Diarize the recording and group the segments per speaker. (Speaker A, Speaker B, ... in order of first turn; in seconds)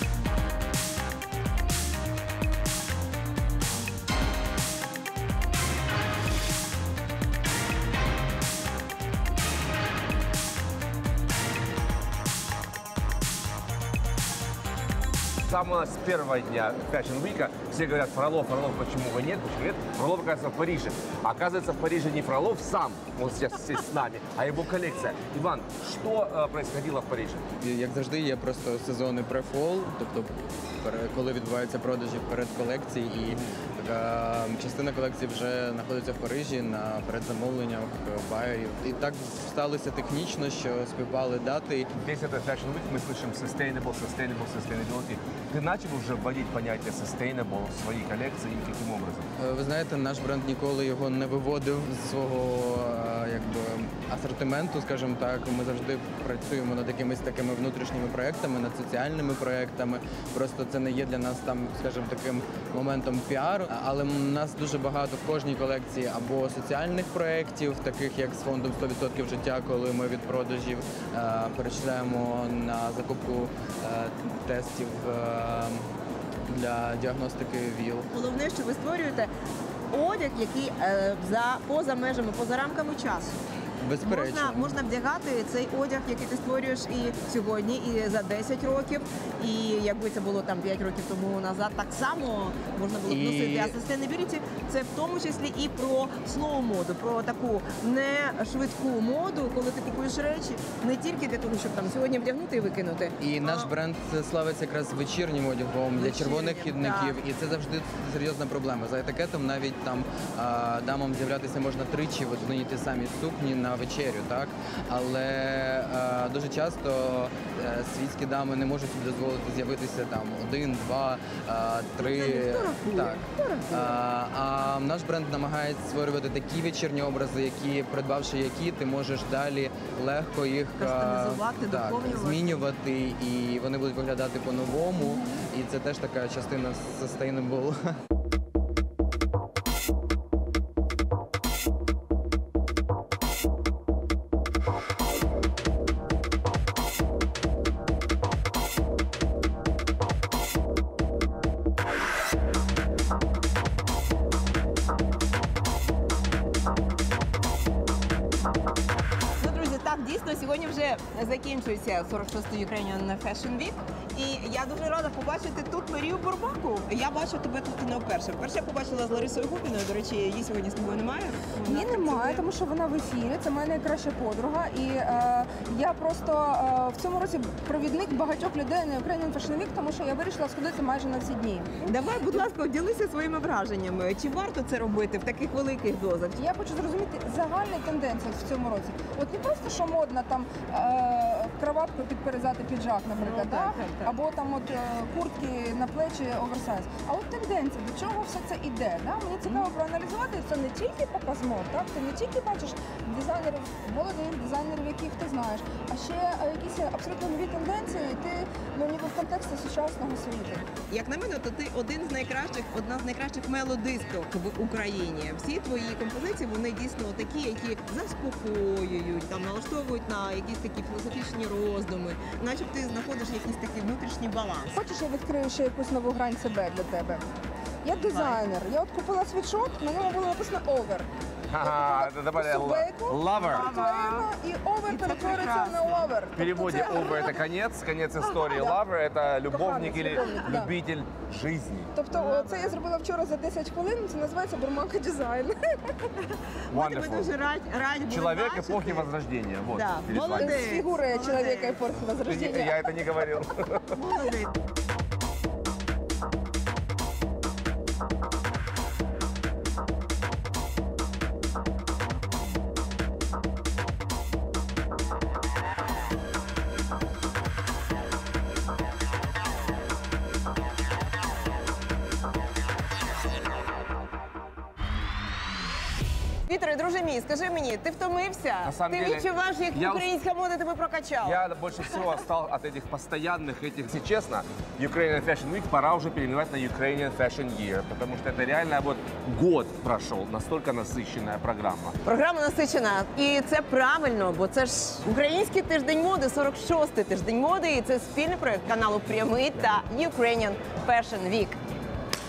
Speaker A: 15.5-27.4, 42.0-49.2, 231.5-233.7, 236.3-241.9, 246.7-247.3, 248.1-250.7, 252.2-254.0, 278.6-280.1, 281.2-291.9
Speaker B: 27.6-41.9, 49.4-75.8, 76.5-78.1, 83.8-84.8, 93.0-93.8, 103.2-137.9
Speaker C: 78.1-79.3, 79.9-83.4, 84.0-103.7, 105.9-107.2, 122.0-124.0, 130.8-132.6, 159.4-172.4, 181.8-186.4, 193.1-194.1, 199.4-199.7, 210.9-224.8, 227.9-228.4, 233.3-234.3, 234.9-236.2, 240.2-240.5, 242.1-242.8, 246.7-249.1, 249.7-251.9, 253.9-254.5, 276.5-281.4, 292.0-301.6
Speaker D: 171.6-181.9, 186.4-210.7, 224.7-227.2, 227.8-231.1, 231.6-237.4, 238.4-238.8, 239.5-240.7, 241.9-246.1, 250.3-252.9